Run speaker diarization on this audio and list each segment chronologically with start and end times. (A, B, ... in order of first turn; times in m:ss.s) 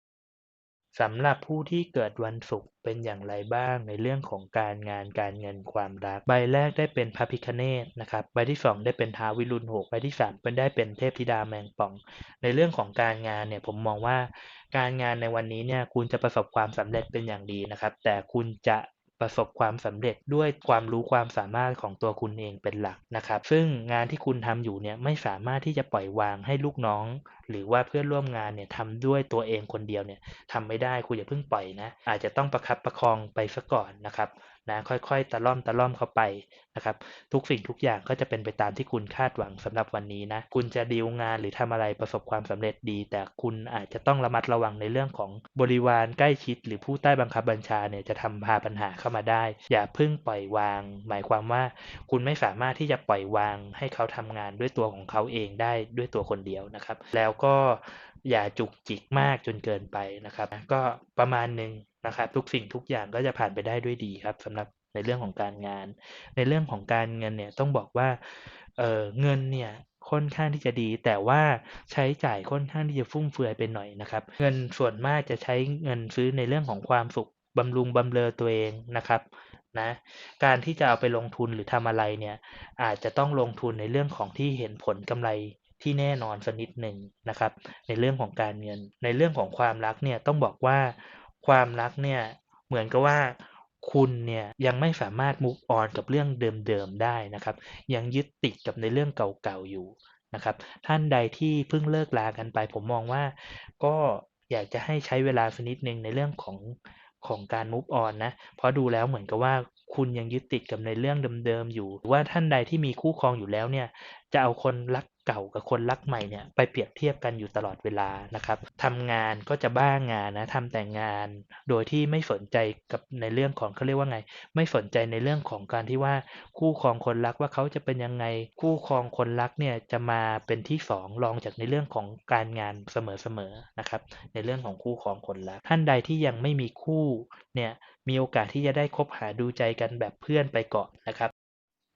0:00.9-2:21.3 A